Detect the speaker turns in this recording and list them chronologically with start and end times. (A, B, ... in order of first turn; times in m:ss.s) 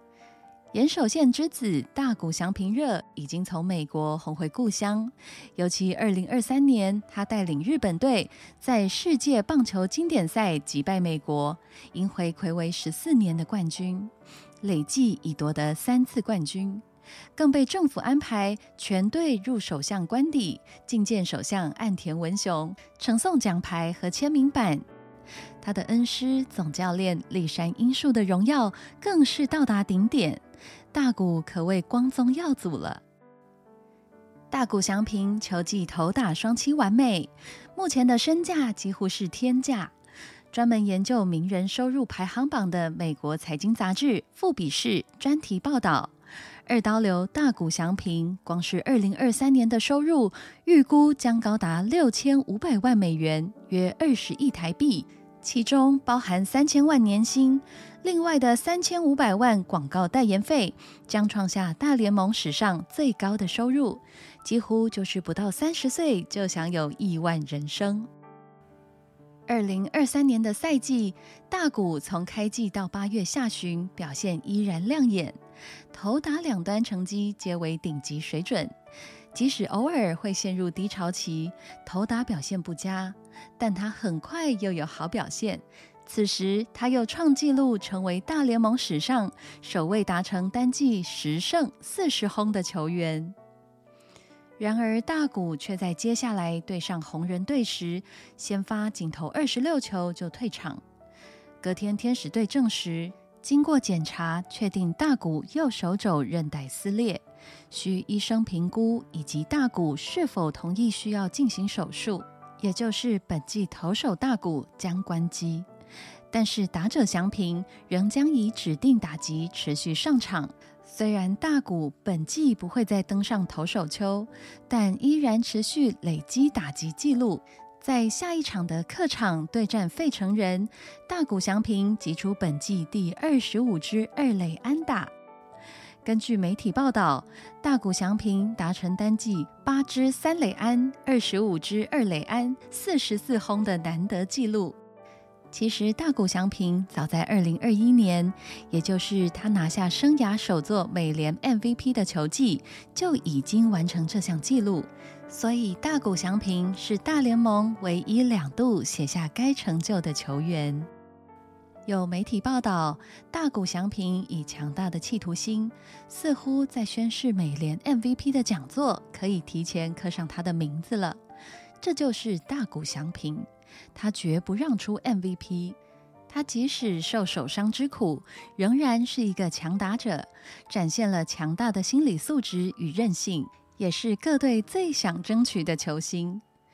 0:00.7-0:16.8 A
0:17.4-0:24.8 A
0:25.6-0:33.0 A
0:34.5-0:40.0 A
0:40.5-0:46.1 A
0:46.7-1:08.1 A
1:09.5-1:15.4 A
1:15.9-1:18.7 A
1:19.3-1:33.4 A
1:34.6-1:40.8 A
1:41.6-1:55.7 A
1:56.3-2:15.1 A
2:16.0-2:24.8 A
2:25.5-2:40.9 A
2:41.9-2:51.2 A
2:51.8-2:55.8 A
2:56.3-3:06.4 A